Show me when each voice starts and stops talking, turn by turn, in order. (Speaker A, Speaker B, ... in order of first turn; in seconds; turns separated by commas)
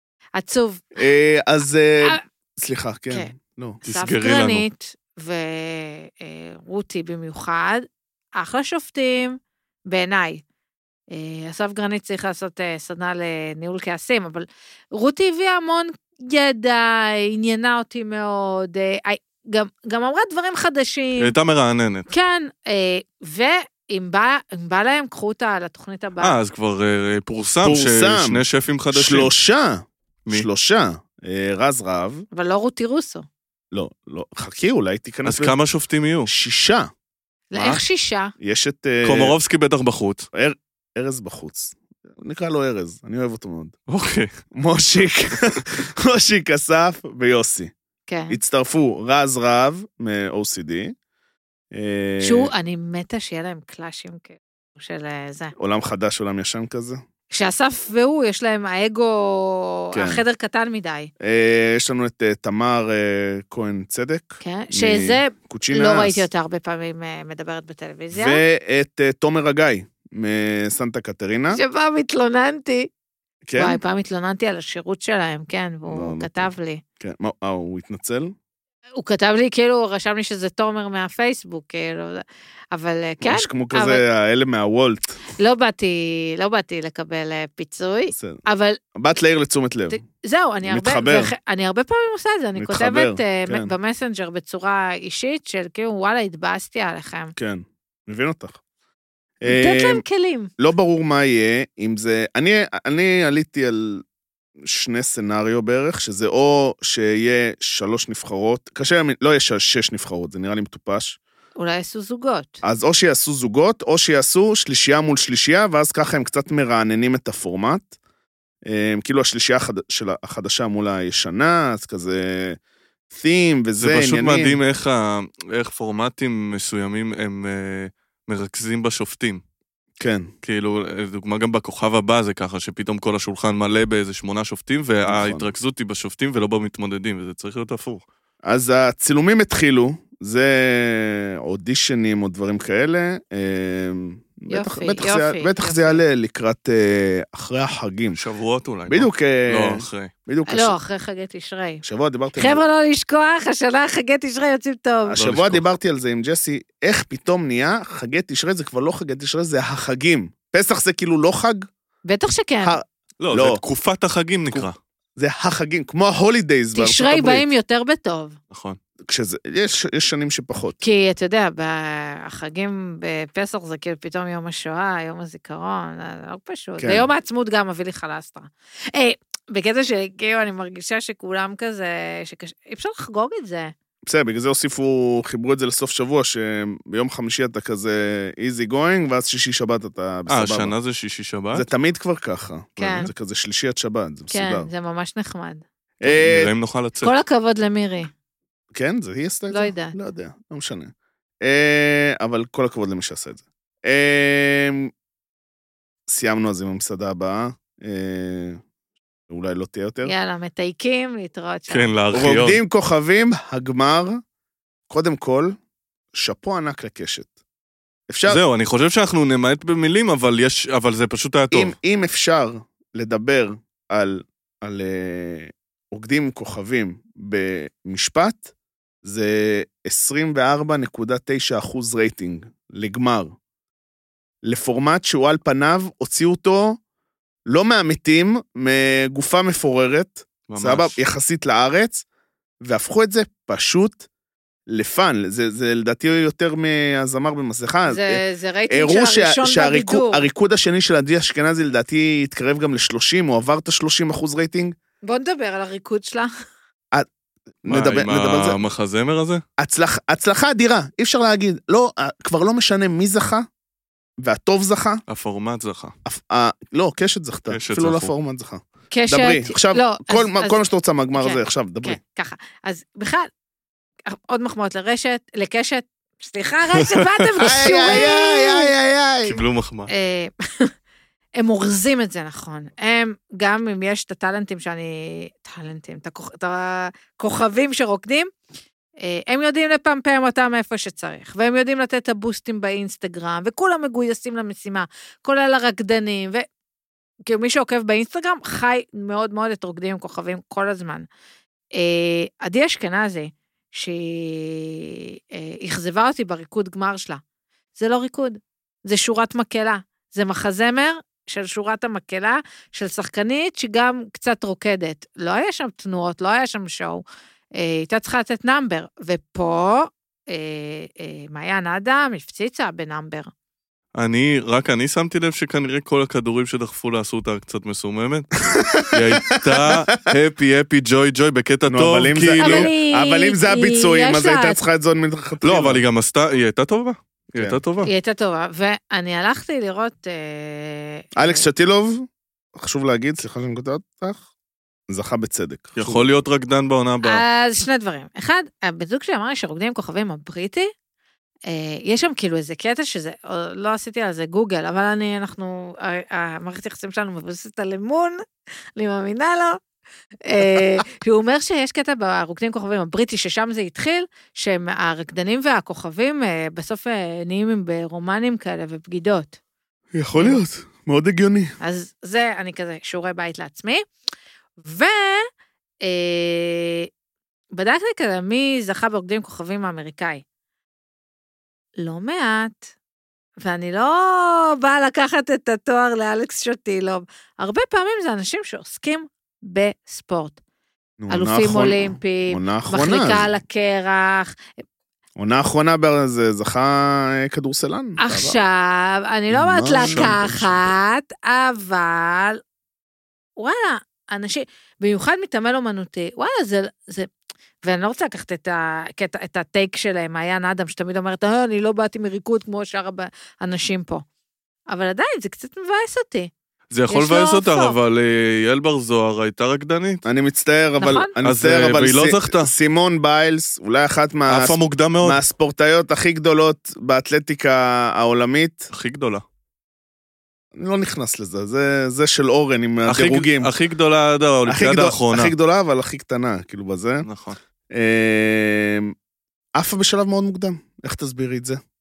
Speaker A: 0.3-0.8, Speaker B: 0.9-3.8, Speaker C: 3.8-4.6, Speaker A: 3.9-9.4, Speaker A: 9.9-10.4, Speaker A: 11.1-21.3, Speaker C: 21.2-22.1, Speaker A: 22.1-26.4, Speaker C: 26.2-29.3, Speaker B: 27.6-32.2, Speaker A: 32.3-33.2, Speaker B: 33.7-35.5, Speaker C: 35.2-36.3, Speaker B: 36.3-36.9, Speaker A: 37.5-38.3, Speaker C: 37.5-37.8, Speaker B: 38.4-39.3, Speaker C: 39.0-40.3, Speaker B: 40.3-43.8, Speaker C: 43.9-44.3, Speaker B: 44.5-47.7, Speaker A: 48.1-48.4, Speaker B: 48.3-50.9, Speaker B: 51.7-52.5, Speaker A: 52.2-55.5, Speaker B: 55.6-57.0, Speaker A: 57.3-61.1, Speaker B: 59.9-60.2, Speaker B: 61.2-66.2, Speaker A: 64.4-68.4, Speaker B: 68.1-71.6, Speaker A: 71.5-72.9, Speaker B: 73.4-73.8, Speaker A: 73.5-76.8, Speaker B: 75.9-78.3, Speaker A: 79.0-84.0, Speaker B: 83.2-85.2, Speaker A: 85.4-88.8, Speaker B: 88.1-88.4, Speaker B: 89.0-90.0, Speaker A: 89.9-97.3, Speaker B: 90.6-91.3, Speaker B: 92.5-93.7, Speaker B: 97.3-98.6, Speaker B: 99.4-100.0, Speaker A: 99.5-100.5, Speaker B: 100.6-104.0, Speaker B: 104.6-111.2, Speaker A: 111.6-112.6, Speaker B: 112.6-117.9, Speaker B: 118.7-122.6, Speaker B: 123.1-124.6, Speaker C: 123.8-129.4, Speaker B: 130.0-130.3, Speaker C: 130.4-138.0, Speaker B: 135.1-135.5, Speaker B: 138.4-148.2, Speaker A: 144.5-146.0, Speaker C: 148.1-150.1, Speaker B: 148.9-150.8, Speaker A: 150.5-151.8, Speaker B: 151.8-152.6, Speaker A: 152.4-155.2, Speaker B: 155.0-161.7, Speaker C: 155.2-155.6, Speaker A: 162.1-162.8, Speaker B: 162.6-163.6, Speaker C: 163.2-164.8, Speaker B: 164.5-167.4, Speaker A: 166.7-168.4, Speaker C: 168.5-168.8, Speaker B: 169.1-170.8, Speaker A: 170.8-183.7, Speaker B: 176.8-177.1, Speaker B: 184.1-190.7, Speaker C: 190.3-191.7, Speaker B: 191.5-194.7, Speaker A: 192.8-193.1, Speaker A: 194.3-195.6, Speaker B: 196.0-196.5, Speaker C: 196.2-197.1, Speaker A: 197.0-198.1, Speaker B: 198.7-200.9, Speaker A: 199.5-199.9, Speaker B: 201.4-204.9, Speaker B: 206.1-208.6, Speaker B: 209.3-210.1, Speaker A: 210.0-211.9, Speaker C: 211.7-212.6, Speaker B: 212.1-214.2, Speaker B: 214.9-215.5, Speaker B: 216.1-217.3, Speaker B: 218.1-218.4, Speaker C: 218.3-221.7, Speaker B: 221.5-228.4, Speaker B: 229.0-233.3, Speaker B: 234.4-236.8, Speaker B: 237.5-242.0, Speaker C: 240.5-241.0, Speaker B: 242.6-244.0, Speaker B: 244.7-254.7, Speaker A: 247.8-250.3, Speaker A: 255.0-256.3, Speaker B: 257.6-258.6, Speaker C: 257.7-259.4, Speaker B: 259.6-263.4, Speaker B: 264.2-265.0, Speaker C: 265.1-265.9, Speaker B: 266.0-272.0, Speaker C: 267.5-268.1, Speaker A: 268.9-270.6, Speaker A: 271.2-273.3, Speaker A: 274.1-278.7, Speaker B: 277.4-279.4, Speaker C: 279.2-279.9, Speaker A: 279.9-280.7, Speaker A: 281.4-288.3, Speaker A: 289.0-296.4, Speaker A: 297.3-301.1, Speaker A: 301.7-307.2, Speaker A: 307.8-317.0, Speaker A: 317.6-323.3, Speaker C: 323.9-328.4, Speaker B: 328.4-330.0, Speaker C: 328.9-332.7, Speaker B: 331.7-335.8, Speaker A: 332.4-334.6, Speaker C: 335.4-337.9, Speaker A: 337.8-341.4, Speaker B: 341.1-344.2, Speaker B: 344.9-346.1, Speaker C: 345.8-347.2, Speaker A: 347.0-350.7, Speaker A: 351.5-358.2, Speaker A: 358.8-359.6, Speaker A: 360.2-369.4, Speaker B: 369.9-371.5, Speaker A: 371.6-373.8, Speaker A: 374.6-375.3, Speaker A: 375.8-376.9, Speaker A: 377.5-380.2, Speaker A: 381.8-382.6, Speaker A: 383.4-390.4, Speaker B: 391.0-393.3, Speaker A: 391.1-394.3, Speaker B: 395.2-398.4, Speaker A: 398.0-402.4, Speaker B: 399.3-400.7, Speaker C: 399.8-400.1, Speaker A: 403.4-407.1, Speaker A: 407.6-414.0, Speaker A: 414.7-416.3, Speaker C: 416.7-420.0, Speaker A: 416.9-417.8, Speaker B: 420.0-428.7, Speaker A: 420.8-421.1, Speaker C: 421.2-422.5, Speaker C: 424.3-425.2, Speaker C: 428.7-429.2, Speaker B: 430.5-433.5, Speaker C: 432.9-435.3, Speaker B: 434.5-437.1, Speaker C: 437.0-437.4, Speaker B: 437.7-438.9, Speaker B: 439.6-441.6